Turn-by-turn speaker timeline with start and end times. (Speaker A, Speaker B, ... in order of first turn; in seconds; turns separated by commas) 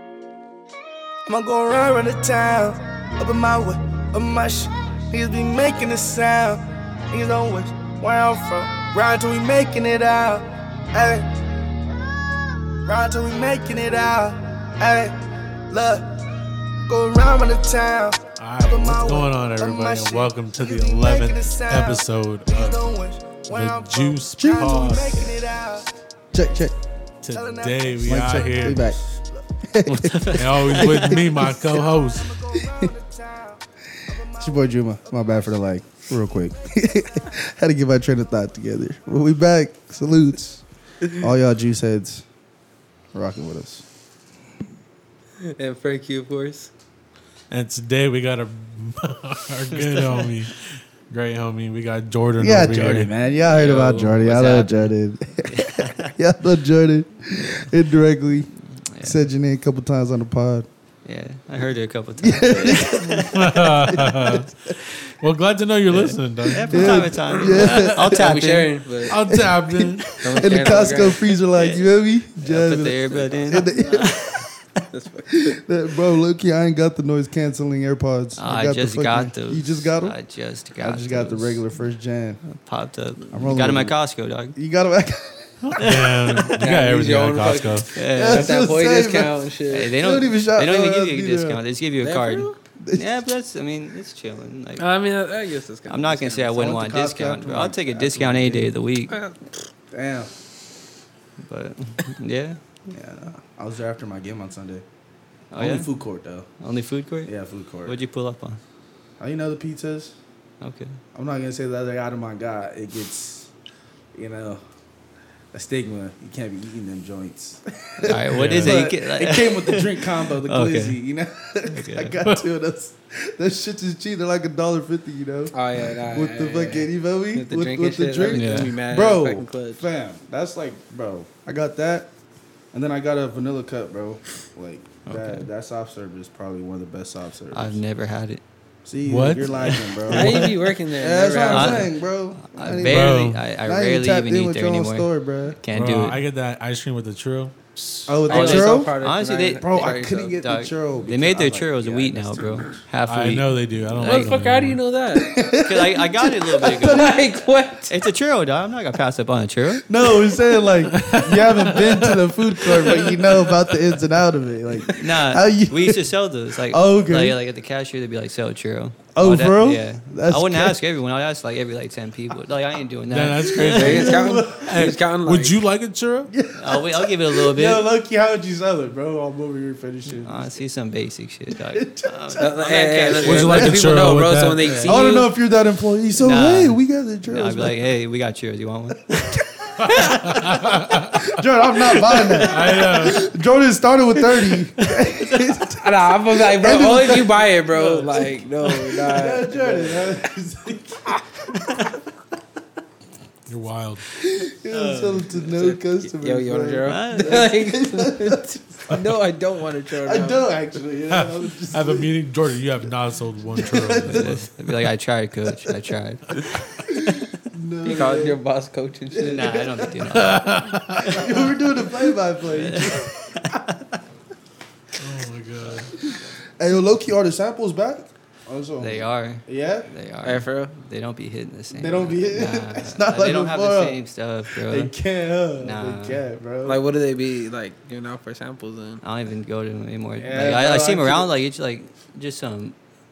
Speaker A: 1.3-6.6, Speaker A: 7.1-11.3, Speaker A: 12.8-15.1, Speaker A: 15.7-16.0, Speaker A: 16.9-25.8, Speaker B: 18.4-22.9, Speaker B: 23.5-25.5, Speaker C: 24.4-25.0, Speaker C: 26.3-26.7, Speaker B: 27.2-28.9, Speaker A: 27.3-28.1, Speaker C: 28.0-29.0, Speaker C: 29.7-31.8, Speaker D: 29.9-31.1, Speaker B: 30.4-32.4, Speaker A: 30.7-34.6, Speaker C: 32.5-32.9, Speaker C: 34.4-40.6, Speaker C: 41.1-42.2, Speaker C: 43.1-43.9, Speaker E: 45.4-46.7, Speaker B: 47.5-53.9, Speaker C: 52.4-58.5, Speaker D: 53.5-54.9, Speaker D: 55.5-56.1, Speaker D: 57.4-57.7, Speaker D: 58.9-59.2, Speaker C: 59.0-60.7, Speaker D: 61.0-63.5, Speaker C: 62.2-64.5, Speaker B: 63.3-64.5, Speaker B: 65.2-68.1, Speaker D: 65.9-68.7, Speaker C: 66.7-68.3, Speaker E: 68.0-69.2, Speaker B: 69.1-70.1, Speaker C: 69.3-74.5, Speaker E: 70.2-71.3, Speaker D: 71.5-74.5, Speaker E: 74.9-75.6, Speaker C: 75.3-80.1, Speaker D: 78.4-81.6, Speaker C: 80.8-82.4, Speaker D: 82.4-84.6, Speaker C: 83.3-84.0, Speaker C: 84.5-85.7, Speaker D: 85.7-86.4, Speaker B: 85.7-87.9, Speaker E: 86.5-89.9, Speaker D: 87.9-88.6, Speaker C: 88.0-91.6, Speaker D: 89.7-94.8, Speaker E: 92.0-92.5, Speaker E: 94.8-96.5, Speaker D: 95.9-99.2, Speaker C: 96.5-98.7, Speaker E: 99.1-99.7, Speaker C: 99.9-100.3, Speaker D: 101.4-102.6, Speaker C: 102.9-104.8, Speaker D: 105.5-105.9, Speaker C: 105.6-106.5, Speaker D: 106.6-108.6, Speaker C: 107.2-108.0, Speaker C: 109.2-110.2, Speaker D: 110.6-111.0, Speaker C: 111.1-113.5, Speaker C: 114.1-114.6, Speaker C: 115.5-132.1, Speaker D: 118.0-121.0, Speaker B: 118.3-118.9, Speaker D: 121.7-122.2, Speaker E: 125.5-129.8, Speaker D: 128.2-128.7, Speaker C: 132.7-137.8, Speaker D: 135.1-135.5, Speaker D: 137.5-138.4, Speaker C: 138.8-145.6, Speaker B: 139.0-140.5, Speaker E: 140.1-141.9, Speaker D: 141.5-146.2, Speaker B: 142.8-143.4, Speaker B: 145.7-148.2, Speaker C: 148.1-148.9, Speaker E: 148.3-150.3, Speaker D: 148.3-154.3, Speaker C: 149.6-152.8, Speaker B: 153.1-154.8, Speaker E: 154.0-155.3, Speaker C: 155.1-157.2, Speaker D: 155.6-159.8, Speaker E: 156.6-157.9, Speaker C: 159.8-167.4, Speaker B: 160.9-163.6, Speaker D: 164.9-174.0, Speaker C: 169.1-170.8, Speaker B: 173.1-176.3, Speaker C: 173.5-174.8, Speaker E: 173.6-175.6, Speaker C: 176.3-180.6, Speaker D: 176.6-177.9, Speaker D: 180.2-183.8, Speaker C: 181.5-182.6, Speaker E: 182.4-185.3, Speaker C: 183.2-183.8, Speaker B: 183.2-184.6, Speaker D: 184.6-185.1, Speaker C: 184.8-187.8, Speaker D: 186.2-190.2, Speaker C: 189.8-198.3, Speaker B: 189.8-191.2, Speaker D: 192.2-192.4, Speaker B: 192.4-193.3, Speaker D: 194.9-195.4, Speaker E: 195.8-200.1, Speaker C: 199.1-201.1, Speaker B: 203.5-204.0, Speaker C: 204.2-209.1, Speaker D: 204.7-205.2, Speaker E: 205.3-210.5, Speaker D: 206.8-207.6, Speaker C: 210.0-212.1, Speaker B: 211.1-214.5, Speaker C: 213.5-214.5, Speaker D: 214.0-217.0, Speaker C: 216.9-218.4, Speaker E: 217.8-219.6, Speaker C: 219.1-220.0, Speaker D: 219.2-221.3, Speaker B: 220.1-221.5, Speaker C: 221.0-223.3, Speaker D: 222.5-223.8, Speaker B: 225.0-225.9, Speaker C: 226.6-229.9, Speaker D: 228.8-234.9, Speaker E: 230.2-230.7, Speaker C: 231.7-236.8, Speaker D: 235.6-236.2, Speaker E: 236.6-239.0, Speaker D: 239.0-242.7, Speaker C: 240.2-241.3